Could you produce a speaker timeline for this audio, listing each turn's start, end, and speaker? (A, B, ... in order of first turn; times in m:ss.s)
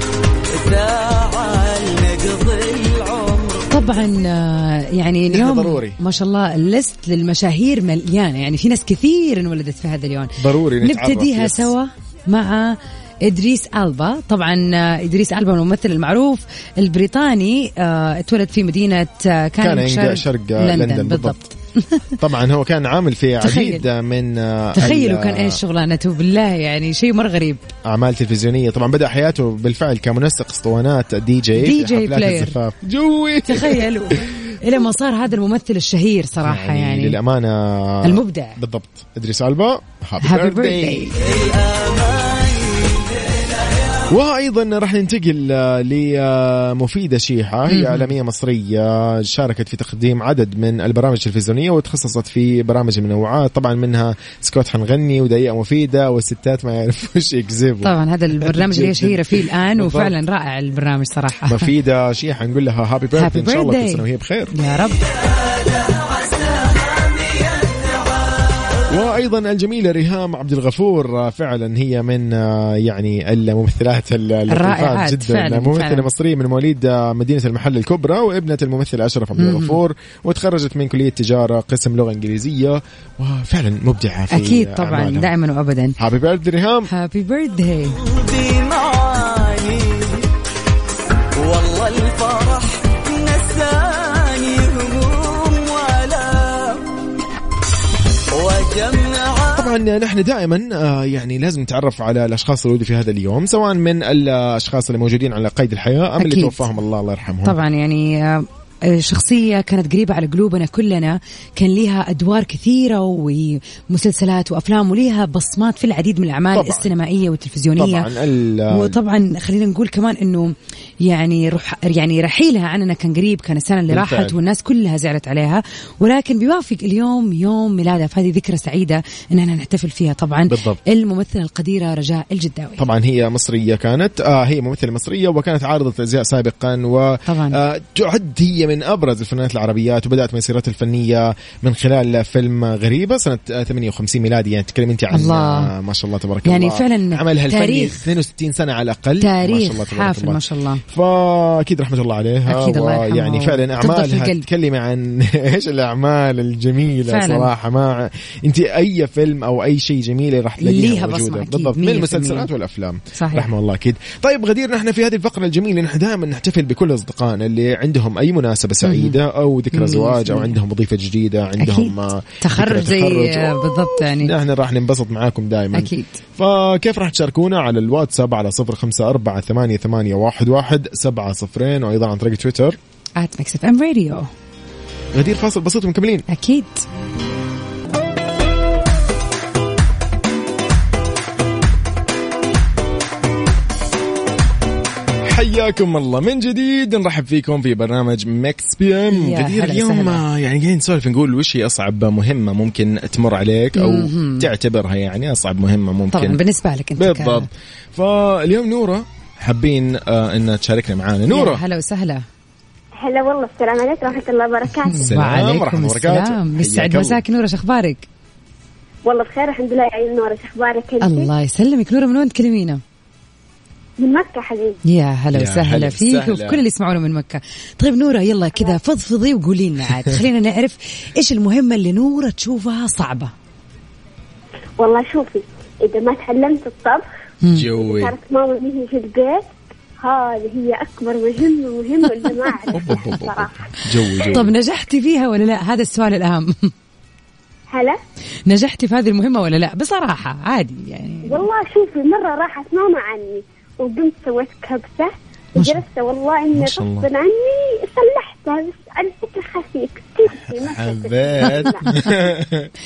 0:00.5-0:03.8 A
0:03.7-0:22.1 B
0:05.3-0:06.0 C
0:10.4-0:11.7 C
0:19.6-0:21.4 C
0:22.2-0:25.6 C
0:23.4-0:23.8 B
0:24.8-0:27.7 B
0:27.8-0:34.4 C
0:31.6-0:32.6 B
0:33.5-0:37.2 B
0:36.4-0:41.2 C
0:38.0-0:38.6 B
0:40.2-0:41.2 B
0:41.2-0:44.0 A
0:44.1-1:00.2 C
0:47.7-0:48.1 B
0:57.8-1:01.7 B
1:01.5-1:04.5 C
1:03.2-1:05.0 B
1:05.8-1:07.9 A
1:08.9-1:25.3 C
1:14.5-1:16.1 B
1:19.4-1:19.8 B
1:24.3-1:26.0 B
1:26.0-1:26.9 C
1:26.9-1:28.0 B
1:28.0-1:30.3 A
1:31.4-1:36.9 A
1:38.3-1:39.7 A
1:39.5-1:47.6 C
1:46.2-1:46.6 B
1:47.4-1:58.1 B
1:56.5-1:56.9 C
1:57.8-1:59.0 C
1:58.7-2:12.8 B
2:03.9-2:04.4 C
2:10.5-2:10.8 C
2:12.8-3:02.8 C
2:17.3-2:17.6 B
2:25.1-2:25.7 B
2:26.4-2:28.0 B
2:29.2-2:30.8 B
2:32.5-2:34.5 B
2:37.1-2:37.5 B
2:40.6-2:42.5 B
2:43.2-2:43.5 B
2:48.8-2:49.2 B
2:49.7-2:50.6 B
2:51.6-2:54.3 B
2:55.7-2:56.2 B
3:03.2-3:04.3 B
3:05.1-3:06.2 C
3:06.3-3:06.8 B
3:15.2-3:26.4 C
3:19.1-3:20.2 B
3:23.8-3:24.5 B
3:26.1-3:27.5 B
3:27.0-3:31.6 C
3:31.3-3:32.2 B
3:33.0-3:35.1 D
3:34.9-3:38.1 B
3:35.0-3:37.2 C
3:39.0-3:41.3 D
3:41.0-3:42.8 B
3:44.0-3:44.8 D
3:44.9-3:53.3 B
3:45.3-3:46.6 C
3:54.8-3:57.1 D
3:57.5-3:58.1 C
3:57.7-4:03.6 D
4:02.7-4:04.5 C
4:04.1-4:04.4 D
4:04.3-4:06.7 B
4:07.7-4:08.0 D
4:08.5-4:11.5 B
4:11.3-4:22.1 D
4:15.6-4:15.8 B
4:16.5-4:17.1 C
4:20.5-4:22.7 C